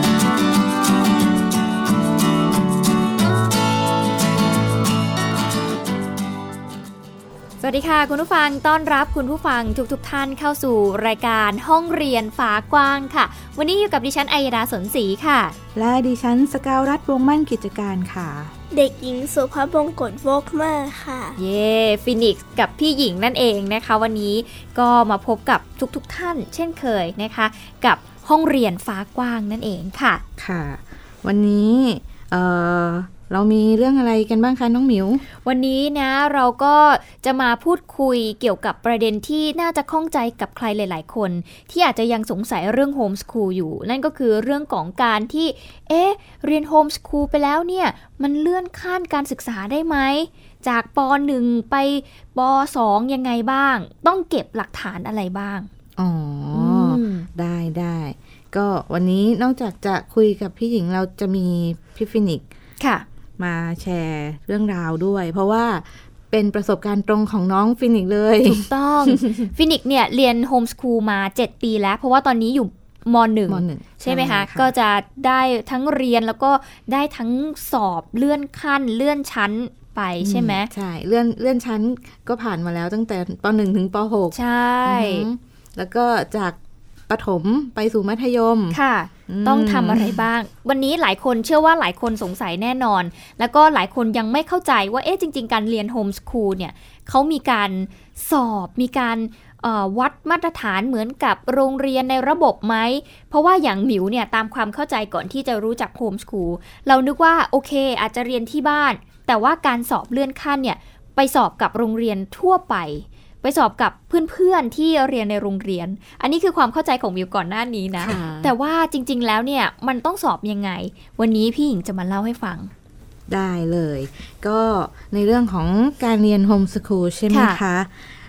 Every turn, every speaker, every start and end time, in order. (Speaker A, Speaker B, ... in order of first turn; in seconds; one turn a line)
Speaker A: 7.6-15.6
Speaker B: 15.8-18.5
Speaker C: 18.7-21.4
Speaker A: 21.4-30.2
Speaker B: 30.4-35.2
Speaker A: 35.4-55.7
Speaker B: 56.0-62.4
Speaker A: 56.5-57.3
Speaker A: 62.8-63.0
Speaker B: 63.4-69.5
Speaker A: 68.5-80.7
Speaker B: 73.5-74.7
Speaker B: 80.2-86.6
Speaker A: 84.3-85.3
Speaker B: 87.1-90.2
Speaker A: 88.7-122.7
Speaker B: 118.0-118.5
Speaker B: 123.3-127.9
Speaker A: 127.3-127.6